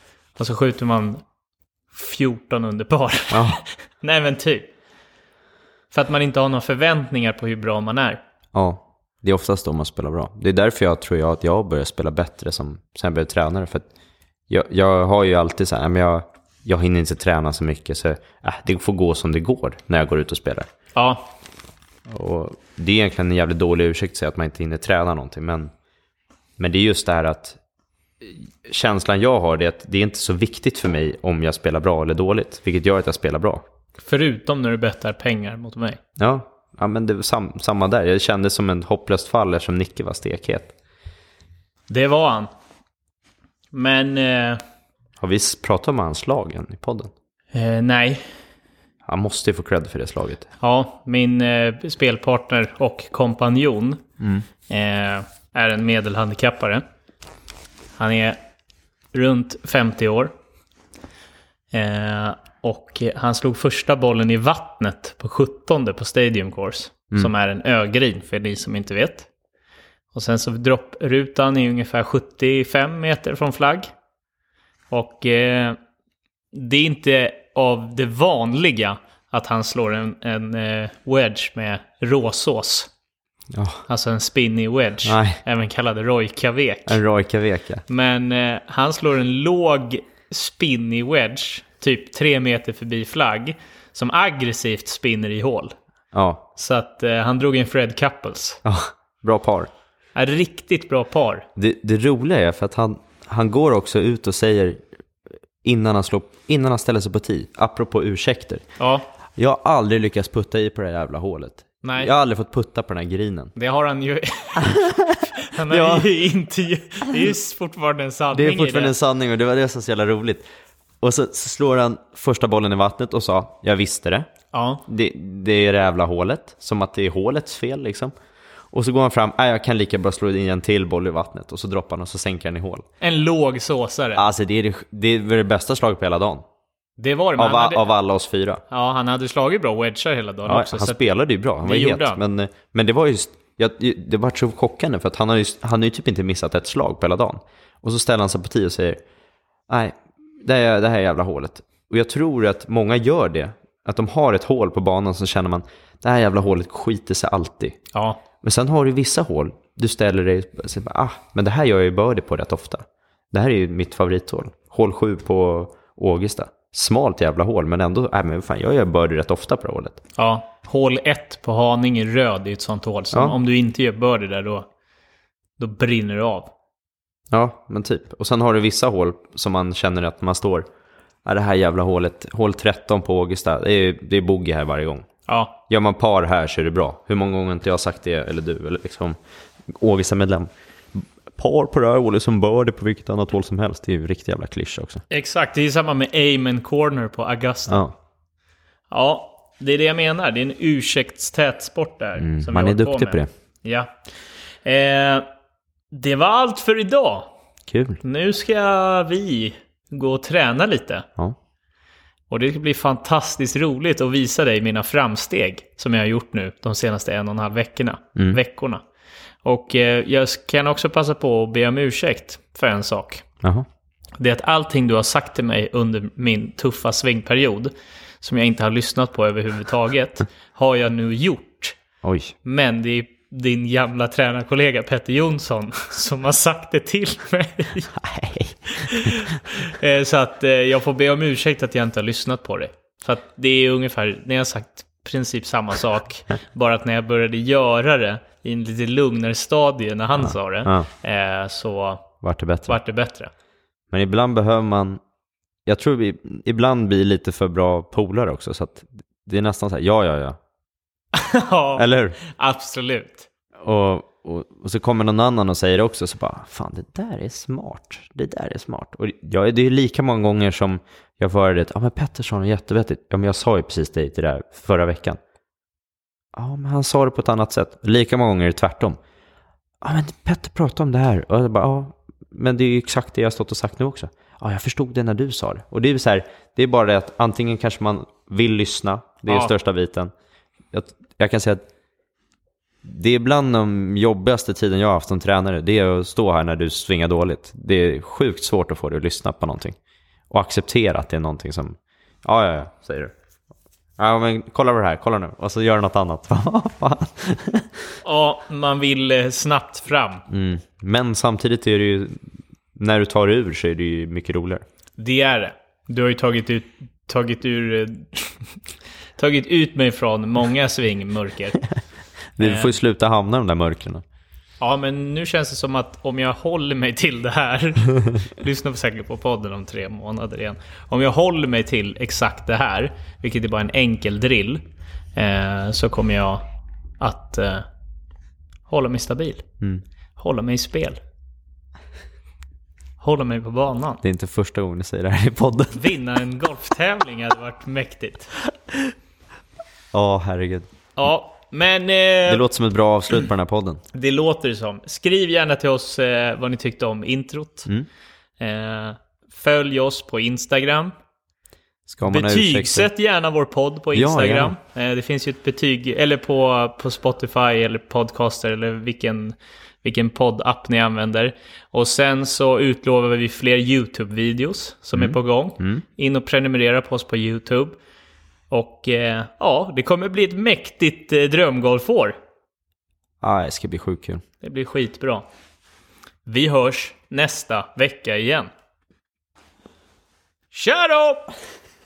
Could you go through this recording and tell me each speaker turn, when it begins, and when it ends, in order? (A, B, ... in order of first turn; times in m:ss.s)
0:00.4-0:01.2 A
0:01.9-0:04.7 A
0:03.3-0:03.6 B
0:05.9-0:08.2 A
0:08.5-0:13.9 B
0:14.5-0:20.7 B
0:21.0-0:21.3 A
0:22.1-0:25.7 B
0:26.6-0:27.6 B
0:28.2-0:33.6 B
0:34.0-0:36.0 A
0:36.2-0:40.7 B
0:41.9-0:42.5 A
0:43.7-0:44.6 A
0:45.2-0:47.1 B
0:47.5-0:48.3 A
0:49.0-0:50.5 B
0:50.6-0:54.0 A
0:54.2-0:54.4 B
0:54.7-0:56.8 A
0:58.0-0:58.4 A
0:59.1-1:00.3 A
1:01.7-1:09.3 A
1:10.1-1:13.9 A
1:14.9-1:15.8 A
1:16.5-1:22.9 A
1:23.5-1:23.8 B
1:23.9-1:27.0 A
1:25.0-1:25.4 B
1:26.9-1:27.8 B
1:27.9-1:35.7 A
1:36.1-1:36.4 B
1:36.6-1:38.6 A
1:38.6-1:39.7 B
1:40.2-1:41.5 A
1:41.6-1:44.8 B
1:45.6-1:48.6 B
1:48.8-1:49.1 A
1:49.4-1:53.5 B
1:51.8-1:52.1 A
1:53.6-1:58.9 A
1:54.6-1:56.1 B
1:58.3-2:00.4 B
2:01.0-2:04.3 B
2:04.5-2:04.8 A
2:04.9-2:08.1 B
2:08.7-2:12.9 B
2:13.0-2:14.2 A
2:14.2-2:16.4 B
2:17.0-2:17.9 A
2:17.4-2:18.6 B
2:18.7-2:21.0 A
2:20.5-2:29.0 B
2:21.6-2:22.2 A
2:29.7-2:37.8 B
2:37.9-2:38.2 A
2:38.4-2:50.0 B
2:50.2-2:54.7 A
2:55.6-2:56.5 A
2:57.3-3:00.7 B
3:01.2-3:05.1 B
3:05.3-3:05.6 A
3:05.7-3:15.0 B
3:15.1-3:17.8 A
3:17.7-3:18.0 B
3:18.9-3:23.9 A
3:22.2-3:23.3 B
3:24.6-3:25.3 A
3:25.9-3:27.3 A
3:27.7-3:28.0 B
3:28.0-3:31.1 A
3:32.3-3:38.8 A
3:39.4-3:43.3 A
3:44.2-3:51.8 A
3:52.0-3:52.4 B
3:52.4-3:57.9 A
3:57.9-3:59.2 B
3:58.7-4:12.1 A
4:10.3-4:10.9 B
4:12.2-4:12.8 B
4:12.7-4:13.3 A
4:13.9-4:15.0 B
4:15.7-4:20.4 B
4:21.1-4:23.3 A
4:21.8-4:22.2 B
4:23.6-4:35.2 B
4:36.3-4:39.0 B
4:39.8-4:50.1 B
4:50.7-4:51.6 B
4:52.8-4:59.8 B
5:00.3-5:03.1 B
5:04.0-5:07.7 B
5:08.0-5:10.3 A
5:10.3-5:14.6 B
5:15.0-5:18.6 A
5:19.2-5:21.6 A
5:22.4-5:24.0 B
5:22.4-5:22.8 A
5:24.6-5:34.6 A
5:35.2-5:36.4 A
5:37.0-5:37.7 A
5:38.7-5:39.4 A
5:40.2-5:41.0 A
5:43.0-5:44.0 A
5:44.0-5:45.8 B
5:45.7-5:48.3 A
5:49.9-5:50.7 B
5:51.0-5:52.4 A
5:52.3-5:53.8 B
5:53.9-5:57.7 A
5:58.4-6:00.9 A
6:01.9-6:02.9 B
6:02.0-6:17.8 A
6:03.9-6:04.5 B
6:15.0-6:15.8 B
6:18.5-6:22.2 A
6:23.2-6:24.2 B
6:24.4-6:25.3 A
6:26.3-6:28.5 A
6:30.5-6:31.3 A